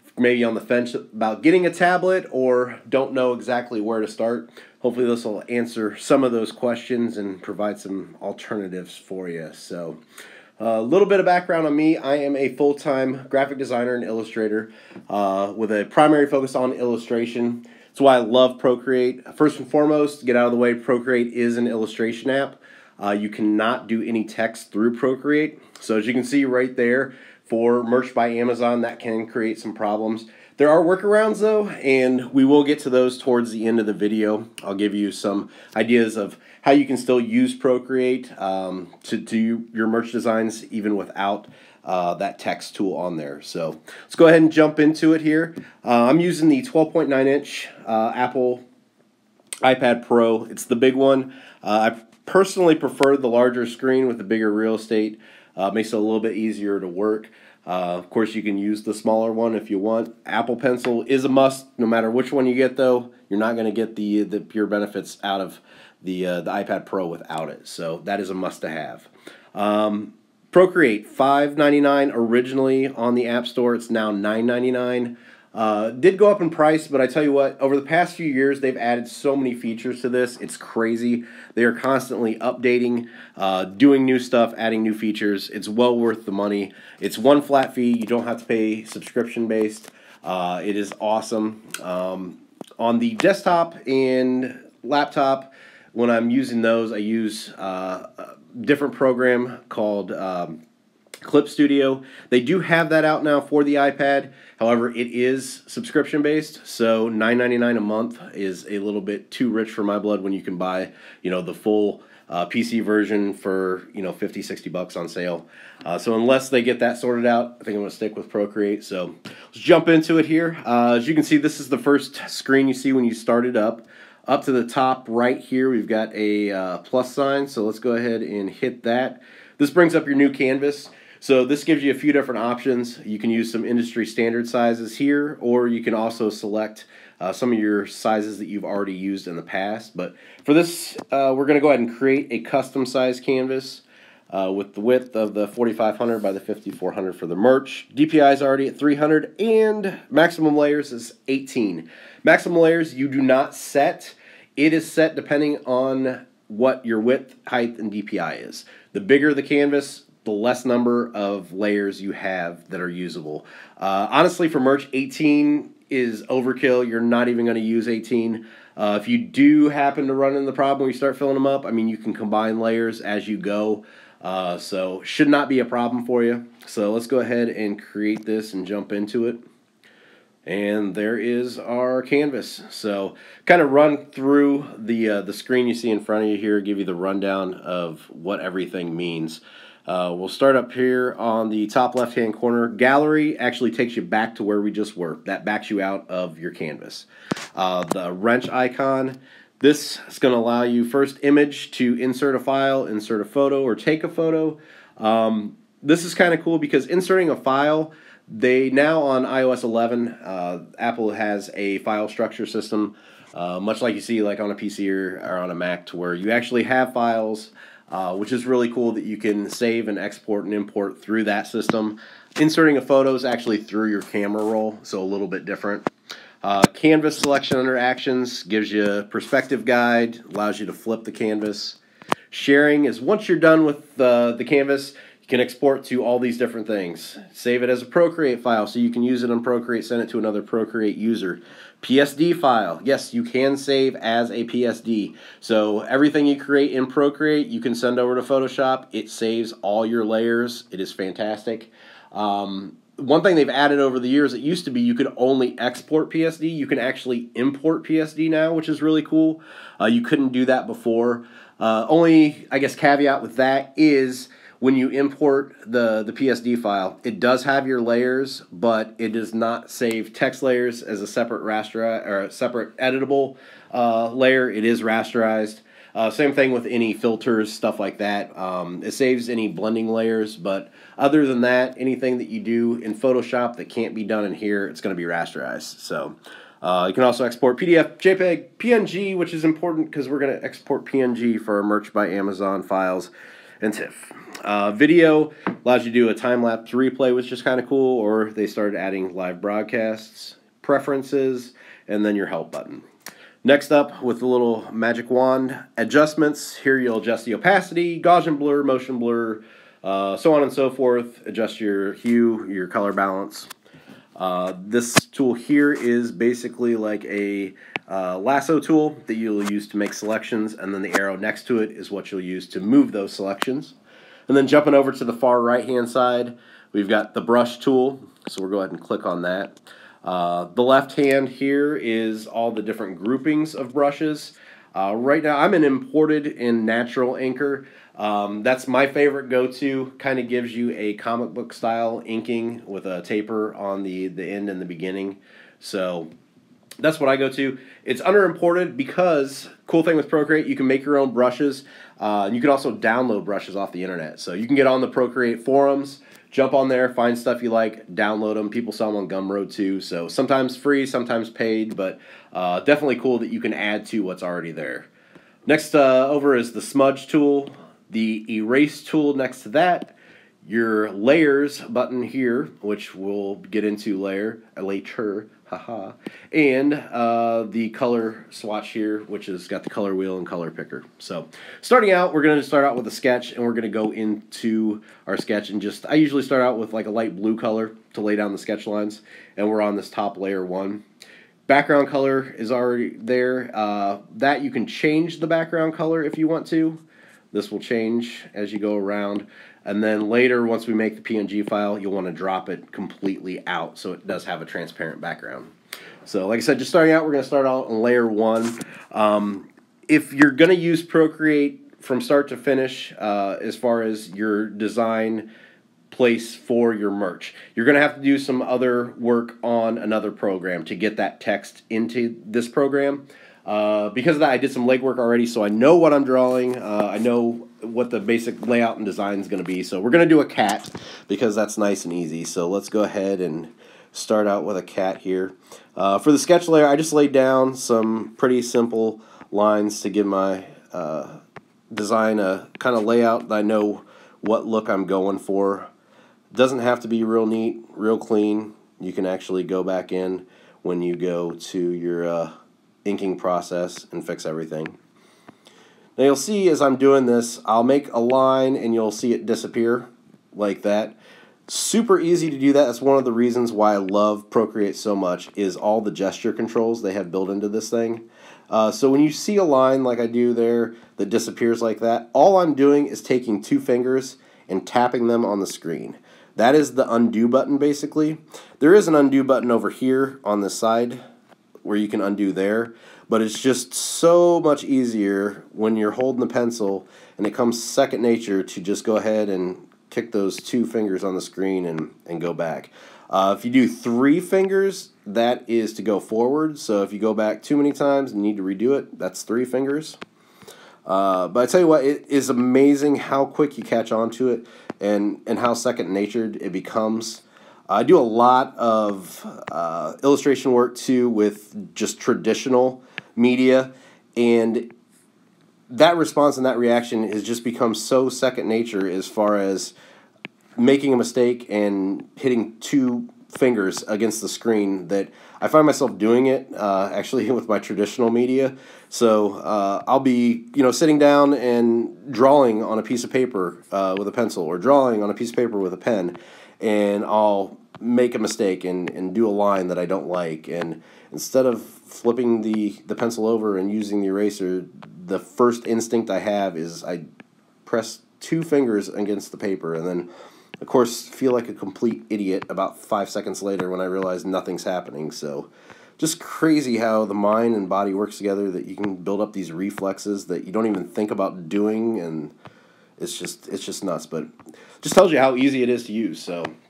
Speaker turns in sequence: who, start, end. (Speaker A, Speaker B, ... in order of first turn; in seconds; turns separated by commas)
Speaker A: 0.2-10.0, Speaker A: 10.6-48.6, Speaker A: 49.6-100.6, Speaker A: 101.2-179.4, Speaker A: 180.5-225.9, Speaker A: 226.4-231.8, Speaker A: 232.3-302.9, Speaker A: 303.4-313.5, Speaker A: 314.2-323.8, Speaker A: 324.3-346.1, Speaker A: 346.8-364.9, Speaker A: 365.5-390.8, Speaker A: 391.5-405.5, Speaker A: 406.1-415.3, Speaker A: 415.9-445.7, Speaker A: 446.3-452.3, Speaker A: 452.9-454.8, Speaker A: 456.0-460.9, Speaker A: 461.5-481.0, Speaker A: 481.6-500.0, Speaker A: 500.9-514.7, Speaker A: 515.7-519.8, Speaker A: 520.6-547.0, Speaker A: 547.6-550.1, Speaker A: 550.6-562.3, Speaker A: 563.0-566.5